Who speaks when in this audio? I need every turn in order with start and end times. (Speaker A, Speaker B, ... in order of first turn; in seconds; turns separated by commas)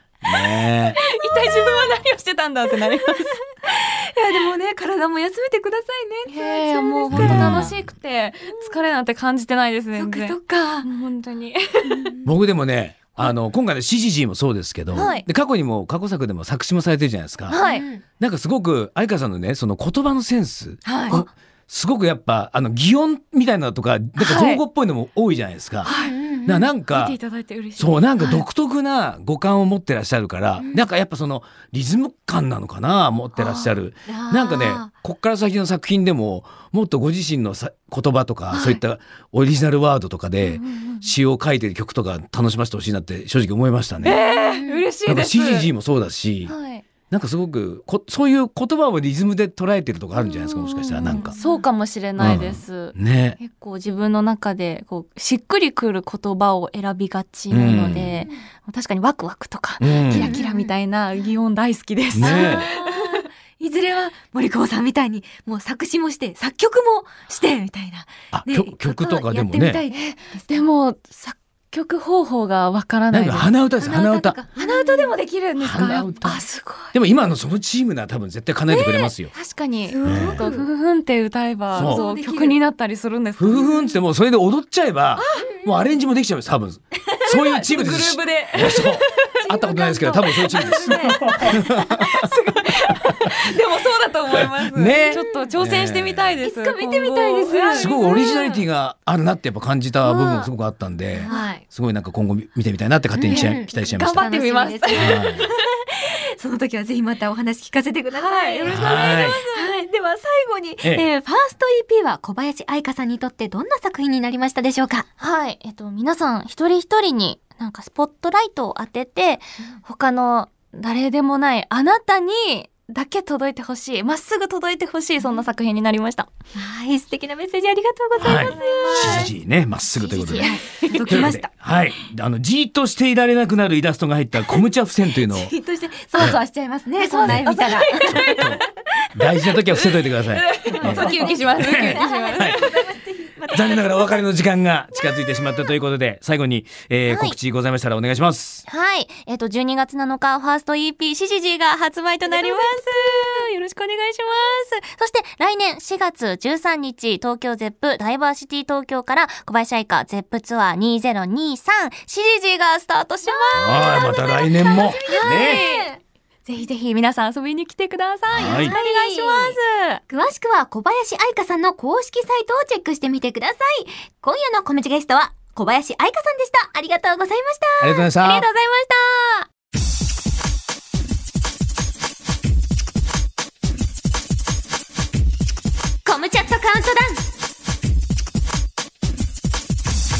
Speaker A: 0.2-1.5, Speaker B: 0.9-3.4, Speaker C: 3.6-7.7, Speaker B: 6.3-12.1, Speaker A: 7.1-7.9, Speaker C: 9.9-10.9, Speaker C: 11.8-12.3, Speaker A: 12.2-17.6, Speaker C: 14.9-15.2, Speaker B: 14.9-15.3, Speaker B: 17.5-17.9, Speaker C: 17.5-18.0, Speaker A: 18.2-25.9, Speaker C: 20.9-21.2, Speaker B: 24.2-24.6, Speaker B: 25.8-26.1, Speaker C: 25.9-26.7, Speaker A: 26.4-27.2, Speaker B: 26.9-28.4, Speaker A: 27.8-44.2, Speaker B: 33.3-33.8, Speaker C: 34.1-34.9, Speaker B: 38.5-38.8, Speaker B: 40.4-41.1, Speaker B: 44.0-45.7, Speaker C: 44.6-44.9, Speaker A: 45.1-46.5, Speaker B: 46.5-46.9, Speaker A: 47.1-51.4, Speaker B: 50.2-63.3, Speaker C: 51.1-51.6, Speaker A: 52.2-53.4, Speaker A: 57.5-58.2, Speaker A: 59.8-60.4, Speaker C: 60.1-61.4, Speaker A: 62.1-62.7, Speaker C: 62.2-70.7, Speaker A: 68.3-69.8, Speaker B: 69.9-73.5, Speaker A: 73.1-74.4, Speaker C: 73.8-76.3, Speaker B: 74.6-76.9, Speaker A: 75.6-79.3, Speaker C: 78.7-79.1, Speaker B: 79.3-83.7, Speaker C: 79.8-80.7, Speaker A: 80.0-80.5, Speaker C: 81.7-82.6, Speaker A: 81.8-82.0, Speaker A: 83.4-92.3, Speaker C: 83.5-83.9, Speaker B: 85.2-85.5, Speaker C: 85.3-85.7, Speaker B: 87.2-98.7, Speaker C: 89.4-91.6, Speaker A: 94.6-96.4, Speaker C: 94.9-95.5, Speaker C: 96.4-98.1, Speaker A: 97.7-104.3, Speaker B: 100.0-100.5, Speaker C: 101.1-101.6, Speaker C: 103.2-115.1, Speaker B: 103.3-105.5, Speaker A: 104.9-105.5, Speaker B: 108.1-109.8, Speaker A: 108.7-109.4, Speaker B: 115.2-126.3, Speaker C: 126.5-129.3, Speaker A: 128.2-135.5, Speaker B: 128.4-129.3, Speaker B: 130.0-131.3, Speaker C: 130.3-131.5, Speaker C: 135.2-138.5, Speaker B: 137.0-138.6, Speaker A: 138.0-142.6, Speaker B: 139.7-142.9, Speaker C: 140.7-144.2, Speaker A: 143.5-148.6, Speaker B: 147.1-147.4, Speaker B: 148.7-165.9, Speaker C: 152.3-153.5, Speaker C: 163.2-166.0, Speaker A: 163.5-165.6, Speaker B: 166.5-170.0, Speaker A: 168.3-168.8, Speaker C: 168.3-169.6, Speaker C: 170.1-178.1, Speaker A: 177.8-178.5, Speaker B: 178.2-179.5, Speaker C: 186.1-187.2